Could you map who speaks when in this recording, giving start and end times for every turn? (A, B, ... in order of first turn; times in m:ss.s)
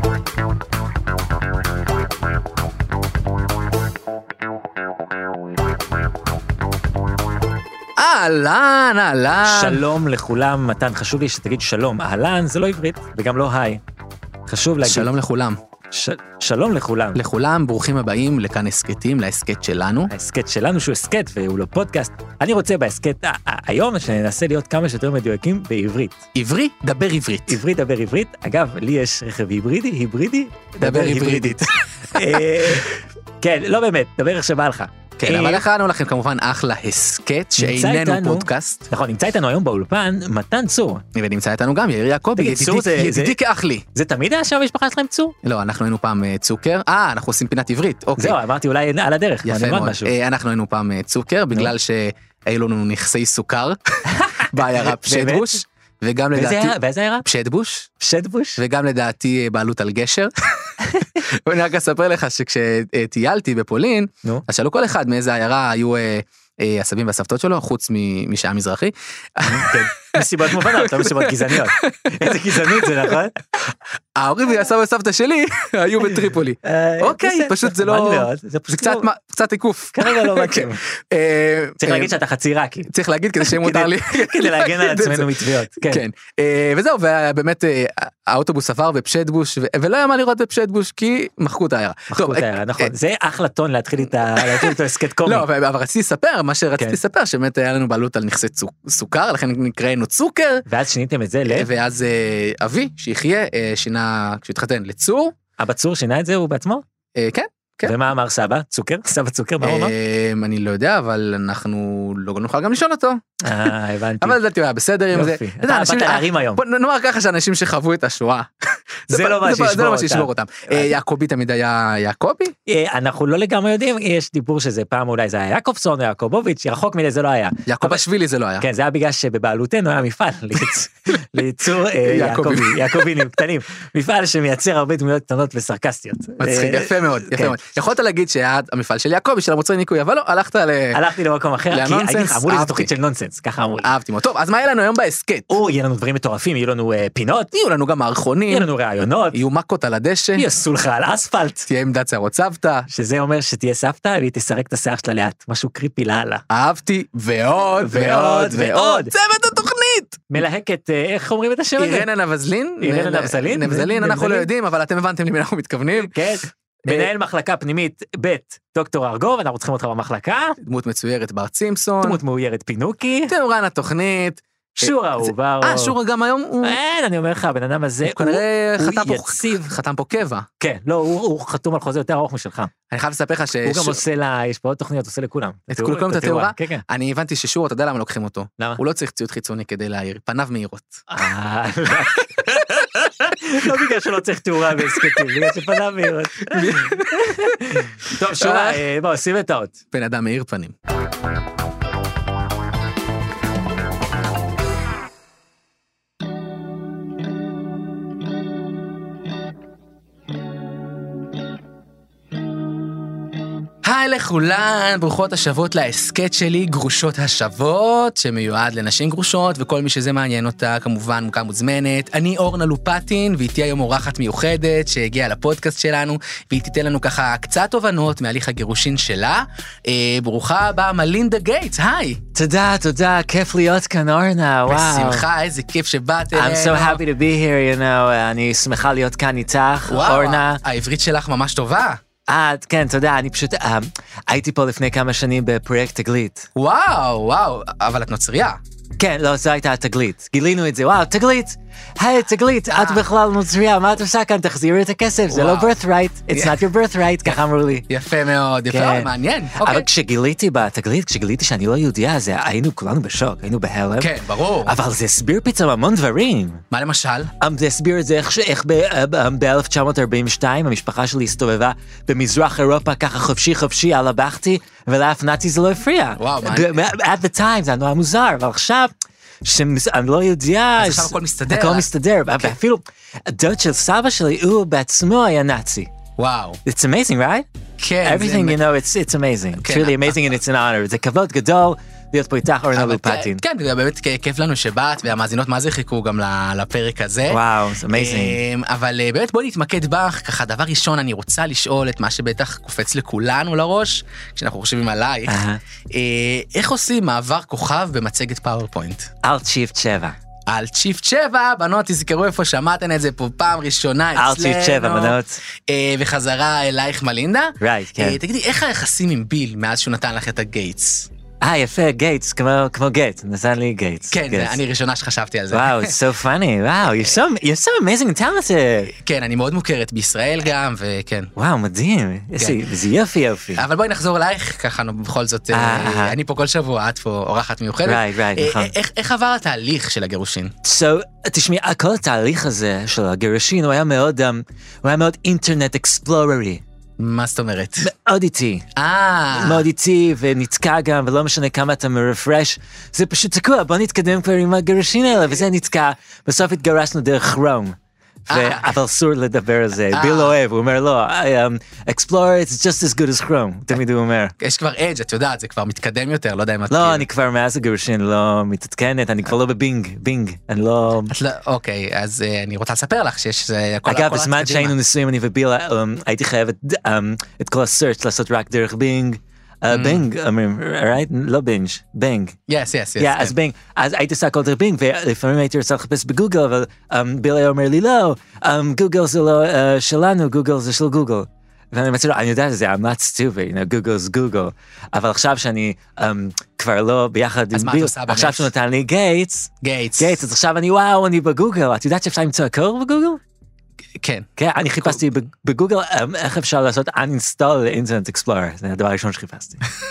0:08.0-0:09.8 A
0:09.5-0:13.8 B
0:14.5-0:15.1 B
0:14.8-0:15.6 A
0:15.9-0:17.2 B
0:17.2-0:20.1 A
0:20.1-0:26.2 B
0:26.4-0:27.6 A
0:27.5-0:35.6 B
0:30.8-0:32.9 A
0:35.2-0:38.9 A
0:37.6-0:41.0 B
0:41.2-0:43.8 A
0:42.4-0:43.4 B
0:43.9-0:45.4 B
0:45.4-0:48.4 A
0:48.2-0:50.1 B
0:49.4-0:57.9 A
0:54.1-0:55.6 B
0:56.4-0:57.3 B
0:58.0-0:58.6 B
0:58.6-1:00.3 A
1:01.2-1:13.1 A
1:09.4-1:13.4 B
1:14.2-1:22.1 A
1:16.6-1:19.1 B
1:20.0-1:20.8 B
1:21.8-1:26.0 B
1:22.9-1:32.9 A
1:32.1-1:35.5 B
1:34.3-1:40.6 A
1:40.7-1:41.7 B
1:41.4-1:45.4 A
1:45.6-1:46.8 B
1:47.2-1:48.0 A
1:47.8-1:49.9 B
1:49.6-1:58.5 A
1:53.4-1:54.4 B
1:55.1-1:56.6 B
1:59.1-2:02.5 A
1:59.1-2:00.9 B
2:02.7-2:08.0 B
2:07.7-2:08.7 A
2:08.6-2:17.6 B
2:12.0-2:13.1 A
2:16.4-2:21.0 A
2:20.9-2:23.9 B
2:21.7-2:22.9 A
2:23.8-2:25.5 A
2:25.5-2:27.5 B
2:27.5-2:28.7 A
2:28.5-2:29.4 B
2:29.3-2:30.5 A
2:30.4-2:31.7 B
2:31.7-2:32.9 A
2:32.9-2:36.4 B
2:36.5-2:40.2 A
2:37.8-2:39.1 B
2:40.3-2:42.1 B
2:41.8-2:46.2 A
2:42.8-2:44.5 B
2:46.0-2:50.6 B
2:46.8-2:47.1 A
2:50.6-2:52.2 A
2:52.0-2:53.3 B
2:53.3-2:56.8 A
2:54.8-2:56.0 B
2:56.6-2:59.8 B
2:58.1-3:00.5 A
3:00.6-3:02.7 B
3:02.9-3:04.0 A
3:03.6-3:06.8 B
3:05.7-3:11.0 A
3:11.1-3:19.8 B
3:14.9-3:15.3 A
3:16.4-3:18.9 A
3:19.9-3:20.7 A
3:33.8-3:52.2 A
3:52.3-3:55.3 B
3:54.7-3:57.0 A
3:56.3-4:00.6 B
3:59.9-4:02.0 A
4:02.3-4:06.5 B
4:06.6-4:08.6 A
4:09.0-4:17.9 B
4:12.7-4:13.0 A
4:15.3-4:15.8 A
4:16.3-4:16.6 A
4:17.9-4:19.9 A
4:18.7-4:26.6 B
4:24.0-4:24.8 A
4:26.7-4:27.3 A
4:27.4-4:45.9 B
4:36.2-4:36.8 A
4:40.8-4:41.9 A
4:46.2-4:46.6 A
4:46.6-4:47.5 B
4:47.8-4:48.6 A
4:48.0-4:53.4 B
4:49.6-4:50.2 A
4:52.7-4:57.4 A
4:57.3-4:58.4 B
4:57.9-5:09.1 A
5:05.3-5:05.6 B
5:09.2-5:10.2 B
5:10.5-5:21.1 A
5:14.2-5:15.4 B
5:17.6-5:18.2 B
5:21.4-5:24.6 B
5:24.1-5:25.9 A
5:25.5-5:28.9 B
5:29.0-5:31.3 A
5:31.4-5:33.6 B
5:33.6-5:40.5 A
5:35.5-5:36.2 B
5:37.8-5:38.7 B
5:40.6-5:46.6 B
5:47.0-5:47.9 A
5:47.8-5:48.7 B
5:48.8-5:49.6 A
5:49.3-5:57.8 B
5:58.3-5:58.7 A
5:58.3-6:04.3 B
5:59.9-6:00.4 A
6:04.4-6:07.1 A
6:06.7-6:11.1 B
6:11.1-6:14.7 A
6:13.9-6:22.4 B
6:19.7-6:20.0 A
6:22.5-6:23.4 A
6:23.0-6:43.2 B
6:37.5-6:38.5 A
6:39.6-6:40.2 A
6:44.0-6:44.3 A
6:44.4-6:49.6 B